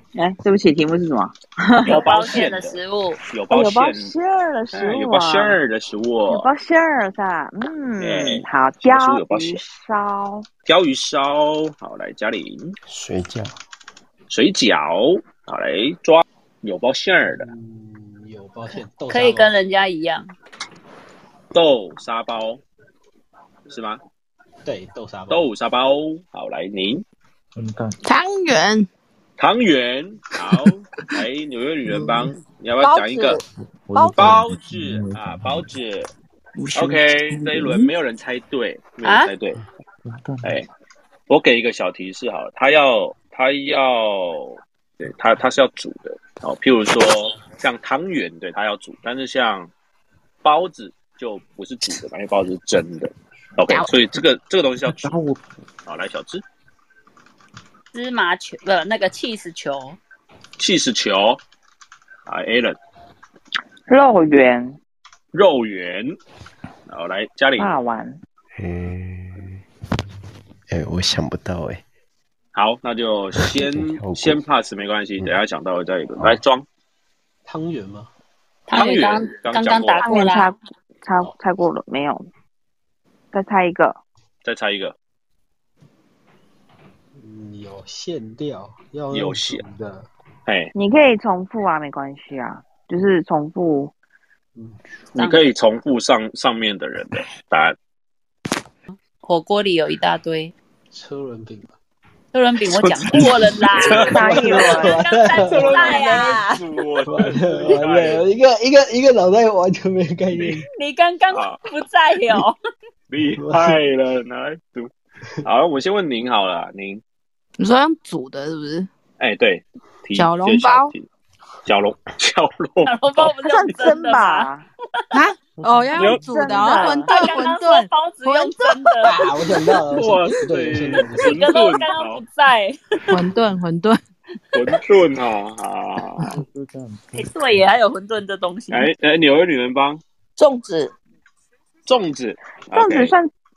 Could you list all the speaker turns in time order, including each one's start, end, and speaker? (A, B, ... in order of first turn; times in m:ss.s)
0:00.1-0:02.1 A
0:01.8-0:02.8 B
0:01.9-0:03.2 C
0:03.3-0:04.1 B
0:03.5-0:05.6 A
0:04.7-0:06.5 B
0:06.3-0:10.4 A
0:08.0-0:09.6 B
0:10.6-0:12.7 B
0:12.9-0:13.5 D
0:14.3-0:17.5 B
0:17.4-0:19.5 E
0:19.1-0:20.3 C
0:21.5-0:22.6 B
0:23.7-0:24.0 B
0:24.6-0:25.5 E
0:25.3-0:27.0 B
0:27.6-0:28.0 F
0:28.0-0:28.9 G
0:29.4-0:33.4 B
0:32.8-0:34.3 H
0:33.8-0:35.7 F
0:34.1-0:36.1 B
0:36.6-0:37.9 G
0:36.7-0:39.6 B
0:39.0-0:39.3 C
0:40.0-0:40.6 F
0:40.4-0:40.7 B
0:41.3-0:49.7 B
0:50.4-0:55.2 B
0:55.0-0:55.4 F
0:55.9-0:56.4 B
0:57.9-1:00.0 C
1:00.6-1:01.4 B
1:02.3-1:02.8 B
1:03.9-1:04.8 A
1:05.3-1:06.2 B
1:06.9-1:07.7 B
1:07.6-1:08.2 A
1:08.5-1:09.6 D
1:10.7-1:11.8 D
1:12.5-1:16.6 B
1:13.4-1:14.4 D
1:17.4-1:18.1 E
1:18.7-1:20.5 C
1:18.7-1:20.0 B
1:20.0-1:22.3 A
1:23.3-1:24.0 A
1:24.4-1:24.9 B
1:27.2-1:30.1 E
1:29.1-1:29.6 B
1:30.5-1:30.7 B
1:30.8-1:33.9 A
1:35.1-1:37.7 B
1:35.1-1:35.5 C
1:39.2-1:40.5 C
1:40.9-1:41.7 E
1:42.3-1:46.6 C
1:42.8-1:44.7 B
1:43.9-1:46.1 E
1:44.0-1:45.0 A
1:45.4-1:48.2 B
1:47.0-1:50.6 E
1:50.7-1:52.6 C
1:51.3-1:51.6 B
1:53.1-1:54.9 B
1:53.4-1:53.8 E
1:55.4-1:57.0 B
1:57.6-1:58.9 G
1:59.2-2:01.1 B
2:00.1-2:00.9 G
2:01.6-2:03.3 B
2:02.8-2:04.5 C
2:03.4-2:04.6 A
2:05.1-2:09.0 G
2:05.7-2:06.0 F
2:05.9-2:06.2 B
2:06.0-2:07.1 A
2:06.9-2:09.1 C
2:09.0-2:11.4 E
2:09.9-2:12.2 B
2:11.2-2:12.8 C
2:13.1-2:14.0 G
2:14.5-2:16.4 B
2:16.4-2:17.3 F
2:17.1-2:18.9 C
2:18.7-2:20.0 B
2:20.4-2:20.9 H
2:21.9-2:23.2 B
2:22.7-2:23.3 A